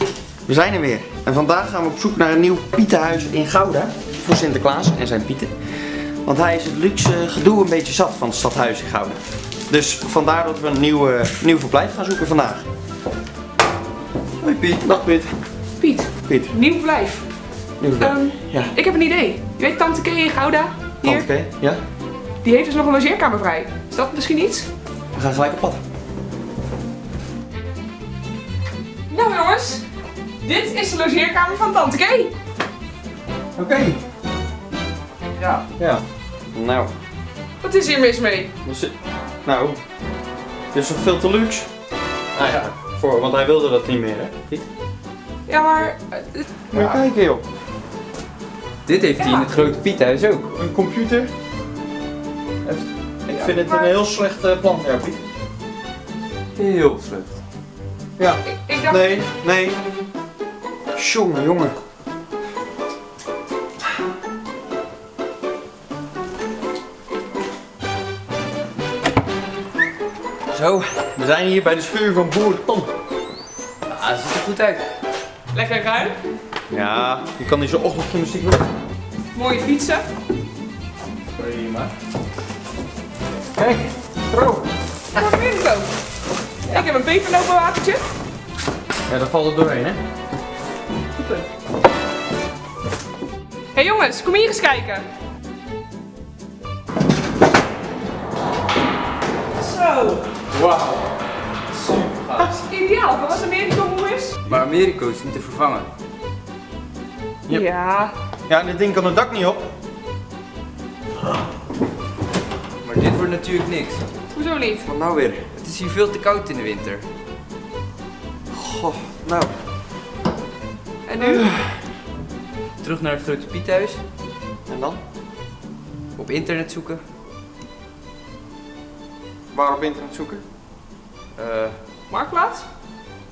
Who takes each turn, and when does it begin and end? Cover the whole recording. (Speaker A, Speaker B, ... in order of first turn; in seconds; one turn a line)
Speaker A: 0.5-12.6
Speaker B: 14.4-14.7
Speaker A: 14.7-15.3
Speaker C: 15.8-17.3
Speaker A: 16.2-16.5
Speaker A: 17.8-18.7
Speaker C: 18.0-21.2
Speaker A: 21.0-21.8
Speaker C: 22.4-24.7
Speaker A: 25.1-25.8
Speaker C: 29.1-29.9
Speaker C: 30.4-32.3
Speaker A: 33.6-34.0
Speaker B: 35.4-35.6
Speaker A: 35.8-36.9
Speaker C: 37.6-38.5
Speaker A: 38.6-38.9
Speaker A: 39.4-39.8
Speaker A: 40.7-41.7
Speaker B: 42.4-42.6
Speaker A: 42.4-44.7
Speaker C: 45.5-46.5
Speaker A: 46.7-47.4
Speaker B: 48.9-50.5
Speaker C: 49.2-49.5
Speaker A: 50.5-51.3
Speaker A: 52.6-55.2
Speaker C: 53.3-53.9
Speaker B: 56.6-57.3
Speaker A: 58.2-59.8
Speaker C: 58.5-59.2
Speaker A: 61.0-61.7
Speaker B: 70.5-70.8
Speaker A: 71.0-72.9
Speaker B: 73.9-74.8
Speaker C: 75.5-76.2
Speaker A: 76.7-78.7
Speaker C: 79.3-80.0
Speaker B: 81.3-81.9
Speaker A: 83.5-84.7
Speaker C: 85.1-85.9
Speaker C: 86.7-88.0
Speaker A: 89.1-90.0
Speaker C: 91.2-91.5
Speaker C: 93.8-95.1
Speaker C: 99.6-100.3
Speaker B: 100.5-101.1
Speaker B: 101.7-102.6
Speaker C: 102.6-104.4
Speaker B: 104.5-105.9
Speaker C: 107.5-108.1
Speaker A: 108.5-109.6
Speaker B: 112.8-114.0
Speaker C: 114.3-114.9
Speaker A: 114.8-115.5
Speaker B: 115.5-117.1
Speaker A: 118.5-119.5
Speaker C: 121.1-121.5
Speaker A: 121.2-121.8
Speaker B: 122.8-124.0
Speaker A: 124.7-125.0
Speaker B: 126.2-127.0
Speaker A: 129.5-130.4
Speaker B: 131.3-131.8
Speaker C: 132.1-132.7